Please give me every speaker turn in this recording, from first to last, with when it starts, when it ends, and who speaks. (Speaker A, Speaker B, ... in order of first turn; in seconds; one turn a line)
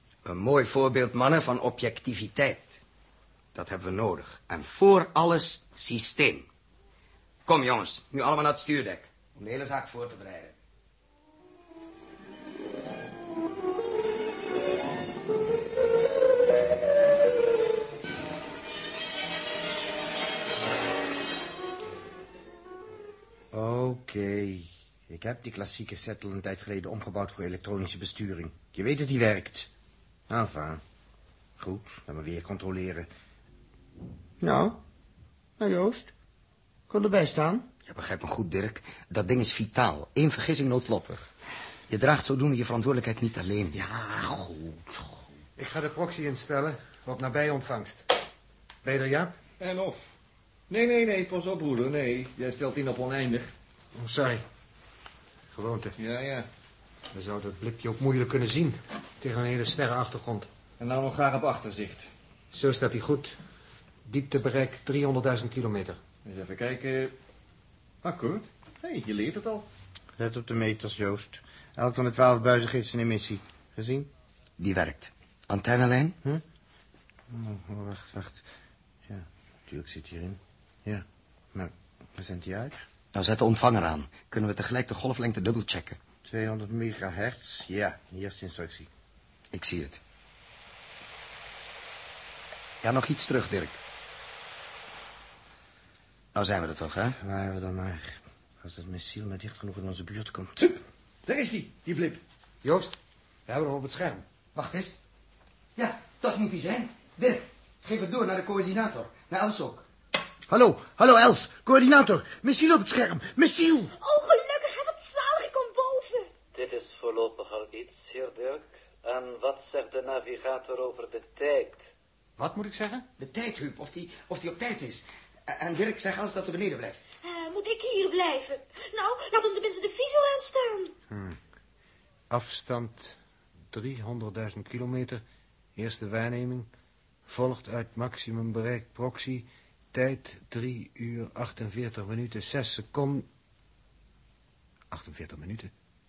Speaker A: 0.2-2.8
Speaker A: 3.5-6.5
Speaker A: 7.5-10.6
Speaker B: 23.5-29.7
Speaker B: 30.3-30.8
Speaker B: 31.6-33.1
Speaker B: 34.4-34.8
Speaker B: 35.6-36.1
Speaker B: 36.9-37.7
Speaker A: 37.9-41.3
Speaker A: 41.9-43.8
Speaker B: 43.7-45.1
Speaker C: 45.6-48.1
Speaker C: 48.8-49.3
Speaker D: 49.6-50.1
Speaker D: 50.7-53.5
Speaker C: 54.0-54.4
Speaker C: 55.5-56.0
Speaker D: 56.0-56.5
Speaker C: 57.1-60.5
Speaker D: 60.8-62.1
Speaker C: 62.5-63.4
Speaker C: 64.1-66.0
Speaker D: 66.2-67.1
Speaker D: 68.0-69.7
Speaker B: 70.2-74.1
Speaker A: 74.6-76.2
Speaker B: 77.3-78.4
Speaker B: 79.1-82.8
Speaker A: 83.1-86.0
Speaker B: 86.2-88.9
Speaker A: 89.5-90.0
Speaker A: 92.8-93.8
Speaker A: 96.3-97.2
Speaker B: 97.2-100.8
Speaker D: 101.3-102.2
Speaker C: 102.6-103.0
Speaker C: 103.5-104.2
Speaker A: 104.5-105.0
Speaker A: 105.8-109.9
Speaker B: 110.5-113.9
Speaker E: 114.0-116.3
Speaker F: 116.5-121.9
Speaker C: 122.4-123.1
Speaker A: 123.2-127.0
Speaker E: 127.2-130.9
Speaker C: 131.1-131.4
Speaker C: 132.3-133.2
Speaker C: 133.7-135.2
Speaker C: 135.8-136.7
Speaker C: 137.3-143.3
Speaker C: 144.9-145.7